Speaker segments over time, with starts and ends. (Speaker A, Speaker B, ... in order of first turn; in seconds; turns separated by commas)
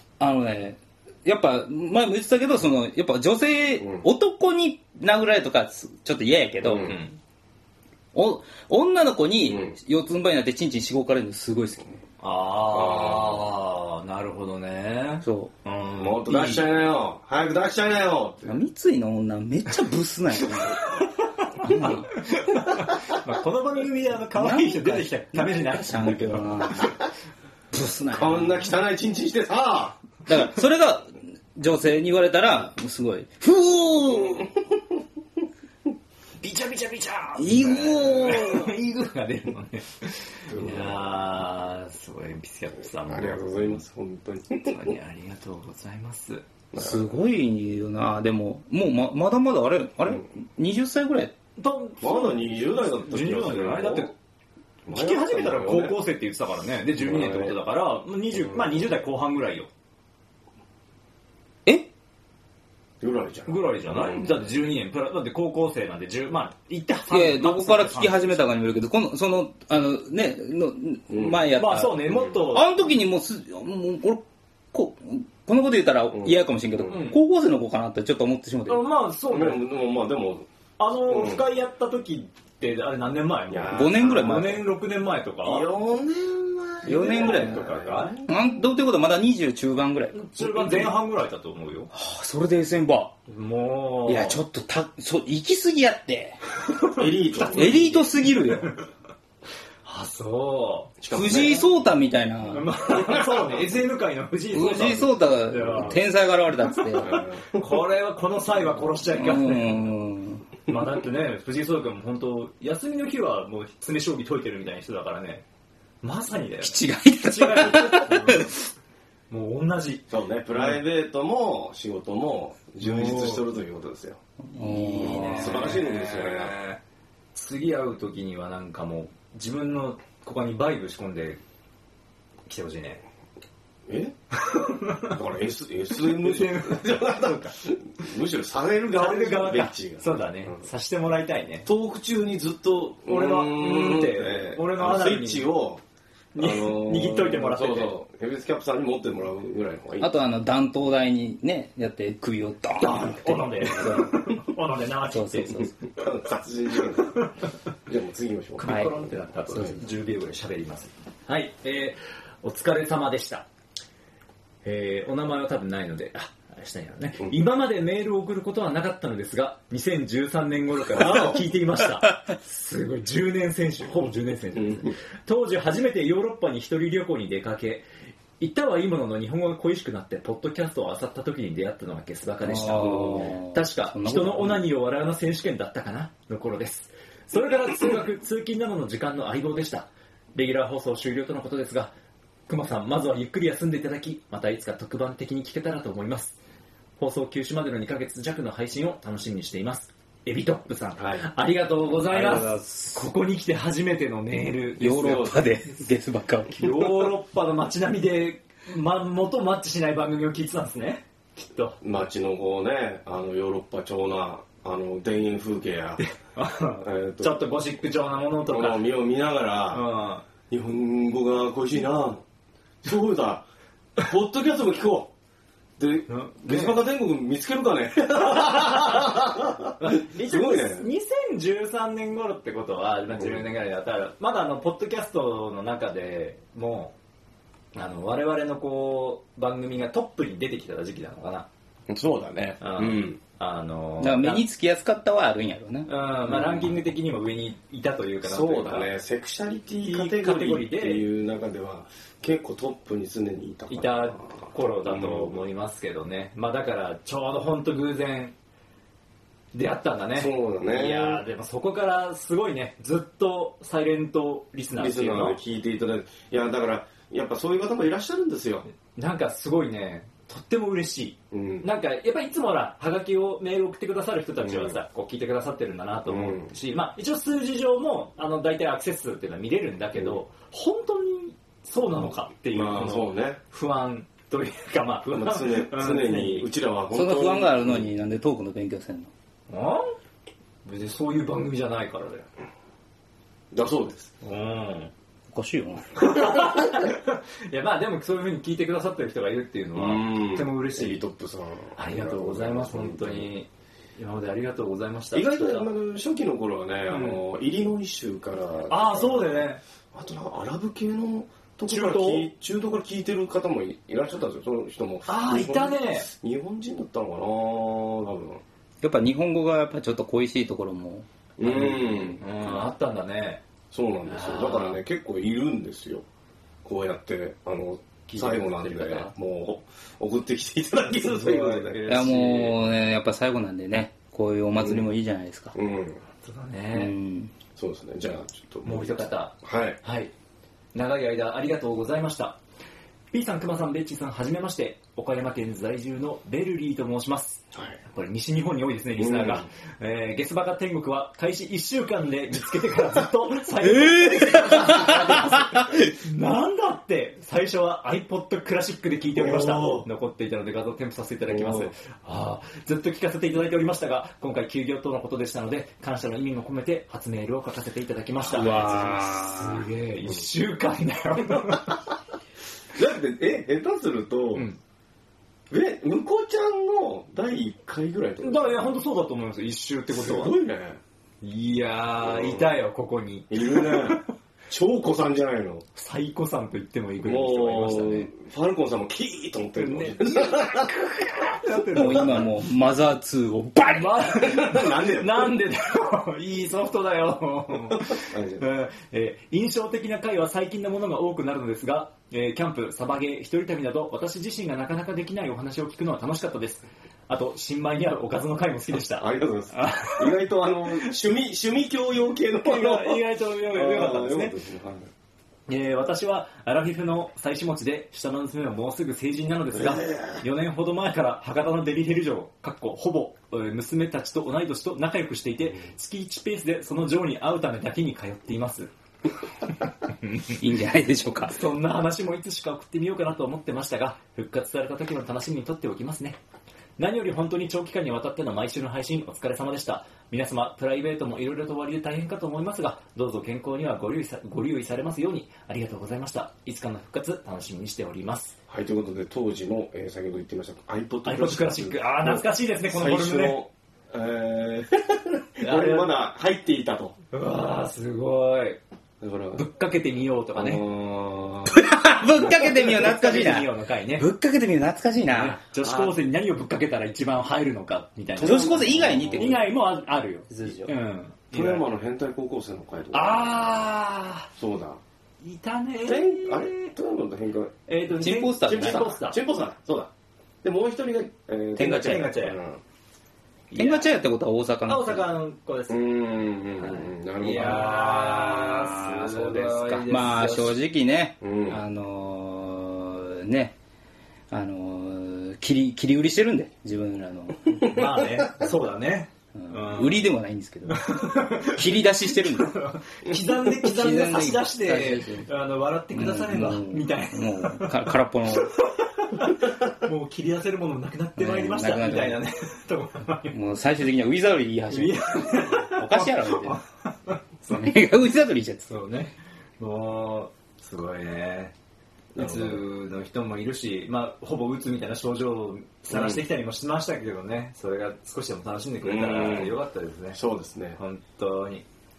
Speaker A: 0.2-7.0, Speaker B: 3.8-4.1, Speaker B: 6.6-7.0, Speaker C: 6.7-7.2, Speaker A: 8.1-12.0, Speaker B: 9.5-9.8, Speaker C: 12.2-16.7, Speaker B: 12.7-13.4, Speaker A: 15.2-15.5, Speaker B: 16.0-18.6, Speaker A: 18.5-21.0, Speaker A: 21.6-22.1, Speaker C: 21.6-26.4, Speaker A: 24.3-27.0, Speaker A: 27.7-28.6, Speaker B: 28.1-30.0, Speaker A: 30.3-34.5, Speaker C: 36.4-43.8, Speaker A: 37.4-38.7, Speaker B: 40.5-41.1, Speaker B: 43.1-44.8, Speaker C: 44.6-46.5, Speaker B: 46.7-47.1, Speaker A: 46.8-51.4, Speaker C: 51.6-54.1, Speaker B: 52.0-54.1, Speaker B: 54.9-56.0, Speaker C: 54.9-59.7, Speaker B: 57.0-57.6, Speaker B: 58.4-58.8, Speaker B: 63.0-64.3, Speaker C: 63.5-68.5, Speaker A: 67.1-78.9, Speaker B: 71.1-71.5, Speaker C: 71.5-72.7, Speaker B: 76.1-76.9, Speaker C: 76.9-77.2, Speaker C: 78.7-79.7, Speaker B: 79.3-80.5, Speaker C: 80.8-85.7, Speaker B: 81.1-81.4, Speaker B: 83.5-84.4, Speaker A: 83.7-84.7, Speaker B: 85.4-88.5, Speaker A: 86.9-87.7, Speaker C: 86.9-88.2, Speaker A: 88.2-90.9, Speaker C: 90.1-91.9, Speaker A: 91.9-93.2, Speaker C: 93.3-94.4, Speaker A: 94.1-96.4, Speaker C: 96.7-98.8, Speaker B: 97.0-98.0, Speaker A: 97.5-98.7, Speaker C: 99.8-101.0, Speaker B: 101.0-101.7, Speaker A: 101.1-102.7, Speaker C: 102.5-106.0, Speaker A: 104.5-107.2, Speaker B: 107.0-107.5, Speaker C: 107.0-109.9, Speaker A: 109.2-110.5, Speaker C: 110.7-115.4, Speaker C: 116.0-118.6, Speaker A: 116.6-118.6, Speaker C: 119.3-120.8, Speaker B: 120.1-124.2, Speaker C: 122.8-123.5, Speaker A: 124.5-125.8, Speaker C: 124.5-126.8, Speaker B: 125.0-126.5, Speaker C: 127.3-131.4, Speaker C: 132.5-133.0, Speaker B: 133.9-134.2, Speaker C: 134.3-135.2, Speaker B: 135.1-140.6, Speaker C: 136.0-137.5, Speaker C: 138.9-141.7, Speaker B: 141.7-145.8, Speaker C: 143.1-145.5, Speaker C: 146.3-147.9, Speaker B: 146.4-150.2, Speaker A: 150.0-154.3, Speaker C: 152.8-155.7, Speaker A: 155.1-155.8, Speaker B: 155.9-157.2, Speaker B: 157.9-159.8, Speaker C: 158.6-163.5, Speaker A: 158.7-158.9, Speaker C: 164.6-177.9, Speaker B: 171.0-171.3, Speaker B: 174.6-174.9, Speaker C: 178.4-191.9, Speaker A: 182.4-184.7, Speaker C: 192.5-196.4, Speaker C: 197.0-205.4, Speaker B: 201.0-201.3, Speaker A: 202.1-203.1, Speaker A: 204.8-207.1, Speaker B: 205.0-205.5, Speaker C: 206.5-211.8, Speaker B: 211.8-216.0, Speaker C: 216.0-218.9, Speaker B: 216.8-217.5, Speaker B: 218.5-219.9, Speaker C: 219.7-220.2, Speaker B: 220.5-222.2, Speaker B: 222.8-225.1, Speaker B: 225.8-230.9, Speaker C: 226.1-226.8, Speaker C: 228.4-229.1, Speaker C: 229.8-236.9, Speaker C: 237.7-241.5, Speaker B: 241.9-243.2, Speaker C: 242.6-244.4, Speaker A: 244.0-246.7, Speaker C: 245.9-248.9, Speaker B: 248.2-255.4, Speaker C: 249.8-251.1, Speaker C: 253.7-258.3, Speaker C: 259.5-265.4, Speaker B: 260.1-261.2, Speaker B: 264.8-268.7, Speaker C: 268.9-286.5, Speaker B: 271.3-271.7, Speaker B: 274.4-274.8, Speaker B: 276.1-276.5, Speaker B: 282.5-283.4, Speaker B: 285.1-287.9, Speaker A: 286.9-289.1, Speaker C: 289.5-289.9, Speaker C: 290.6-292.3, Speaker B: 293.5-294.1, Speaker C: 294.2-294.9, Speaker A: 295.3-296.3, Speaker C: 296.0-301.0, Speaker B: 299.8-303.3, Speaker C: 301.8-305.7, Speaker B: 305.1-318.4, Speaker C: 306.9-307.2, Speaker C: 308.7-309.6, Speaker C: 311.7-312.3, Speaker C: 315.1-316.1, Speaker A: 318.8-321.1, Speaker B: 321.4-322.2, Speaker C: 321.4-323.4, Speaker B: 323.7-326.1, Speaker C: 324.1-324.8, Speaker B: 326.6-332.5, Speaker C: 328.1-329.1, Speaker C: 331.0-332.5, Speaker A: 331.9-335.6, Speaker B: 334.6-334.9, Speaker B: 335.5-336.0, Speaker C: 336.2-336.9, Speaker A: 336.7-337.3, Speaker B: 337.6-339.8, Speaker C: 338.6-340.1, Speaker C: 340.7-342.4, Speaker C: 343.1-371.8, Speaker B: 349.0-349.5, Speaker A: 353.6-355.8, Speaker B: 359.1-359.9, Speaker B: 361.3-361.7, Speaker B: 368.2-368.9, Speaker A: 368.3-369.6, Speaker B: 372.7-374.5, Speaker B: 375.5-378.8, Speaker C: 378.2-380.4, Speaker B: 379.9-380.8, Speaker C: 381.2-384.1, Speaker B: 382.0-382.5, Speaker B: 383.3-385.6, Speaker C: 385.8-388.1, Speaker B: 387.0-390.7, Speaker C: 389.6-392.3, Speaker A: 391.7-394.2, Speaker C: 393.7-410.2, Speaker B: 394.2-395.3, Speaker B: 397.8-398.5, Speaker B: 409.0-414.9, Speaker C: 412.4-414.4, Speaker C: 415.5-428.7, Speaker B: 419.6-420.2, Speaker C: 430.0-430.4, Speaker A: 430.3-431.4, Speaker C: 431.3-436.2, Speaker C: 436.8-448.4, Speaker B: 448.5-457.0, Speaker C: 451.1-453.4, Speaker C: 455.4-455.9, Speaker C: 457.1-458.6, Speaker B: 459.0-459.5, Speaker C: 459.4-460.6, Speaker B: 460.4-461.7, Speaker A: 461.5-465.4, Speaker C: 462.3-464.1, Speaker C: 465.1-471.7, Speaker B: 465.6-465.9, Speaker B: 468.2-469.4, Speaker A: 468.2-469.5, Speaker A: 470.3-470.7, Speaker B: 471.3-473.4, Speaker C: 472.9-474.3, Speaker B: 474.4-474.8, Speaker C: 475.2-476.7, Speaker B: 475.9-477.5, Speaker C: 477.7-479.2, Speaker A: 478.0-478.9, Speaker B: 478.4-479.9, Speaker B: 480.4-482.6, Speaker A: 481.6-482.1, Speaker C: 481.6-482.4, Speaker C: 483.5-483.9, Speaker A: 483.5-485.1, Speaker C: 484.7-486.0, Speaker B: 485.7-488.1, Speaker C: 486.6-490.6, Speaker A: 487.8-493.5, Speaker B: 491.2-491.6, Speaker A: 494.3-497.8, Speaker C: 497.6-500.0, Speaker A: 499.4-502.6, Speaker C: 500.7-513.4, Speaker A: 503.5-505.3, Speaker A: 505.9-508.6, Speaker A: 511.2-512.2, Speaker A: 513.3-516.6, Speaker C: 514.7-517.7, Speaker A: 517.5-518.7, Speaker C: 518.7-521.5, Speaker B: 522.1-522.6, Speaker C: 522.1-530.2, Speaker B: 525.9-526.2, Speaker B: 528.8-529.5, Speaker B: 530.1-530.8, Speaker C: 530.8-531.6